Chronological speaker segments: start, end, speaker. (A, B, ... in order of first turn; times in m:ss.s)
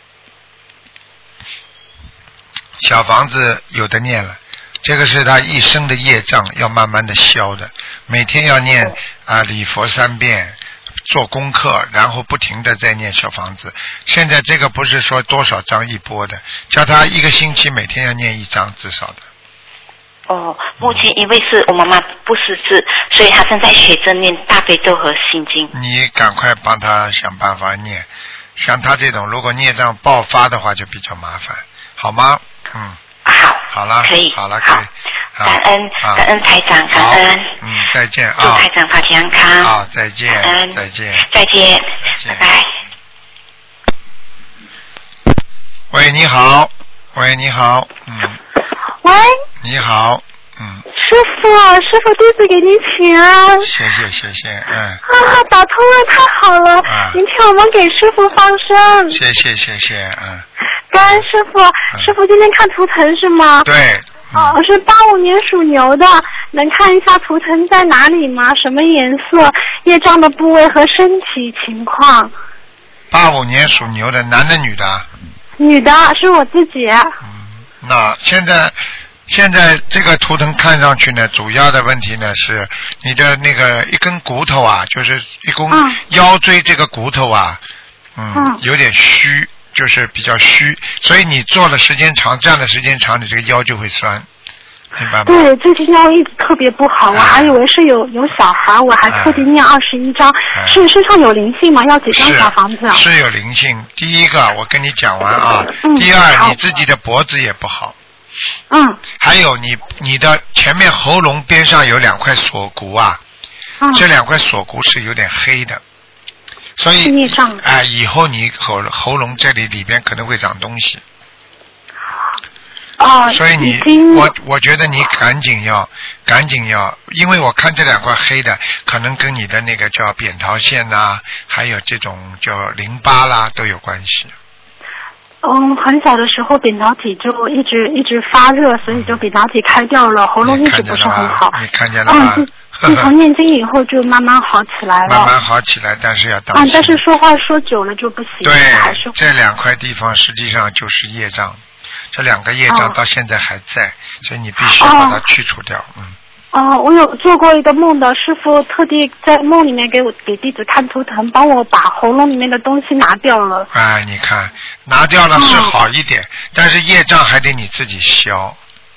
0:02.8-0:19.2 A
0:20.3-0:25.7 B
0:20.8-0:21.0 A
0:25.7-0:33.0 A
0:33.2-0:34.8 B
0:33.7-0:36.3 A
0:35.4-0:37.6 B
0:36.9-0:38.7 A
0:38.4-0:39.8 B
0:39.6-0:41.2 A
0:40.3-0:42.7 B
0:42.0-0:42.4 A
0:45.9-0:48.4 A
0:49.0-0:49.4 C
0:49.6-0:50.8 A
0:50.9-0:53.7 C
0:53.6-0:55.0 A
0:55.0-0:59.2 C
0:56.8-0:57.2 A
0:59.1-1:00.4 A
1:00.9-1:03.7 C
1:03.6-1:04.6 A
1:04.3-1:12.3 C
1:13.1-1:15.1 A
1:15.6-1:17.2 C
1:17.2-1:27.6 A
1:25.7-1:26.0 C
1:28.2-1:34.3 A
1:28.3-1:28.6 C
1:35.0-1:35.5 A
1:35.2-1:43.0 C
1:37.1-1:37.6 A
1:39.1-1:39.5 A
1:40.5-1:40.8 A
1:42.1-1:48.0 A
1:45.8-1:46.6 C
1:48.7-1:49.0 C
1:49.2-1:53.2 A
1:53.8-1:54.0 C
1:53.9-1:55.8 A
1:56.8-2:01.0 A
1:57.0-1:57.6 C
2:03.0-2:04.3 C
2:03.3-2:14.3 A
2:15.4-2:25.3 C
2:18.9-2:19.2 A
2:20.4-2:23.1 A
2:25.0-2:27.0 A
2:26.5-2:29.2 C
2:28.4-2:36.2 A
2:32.7-2:33.0 C
2:34.6-2:35.2 C
2:36.5-2:43.7 C
2:43.7-2:48.6 A
2:45.4-2:45.8 C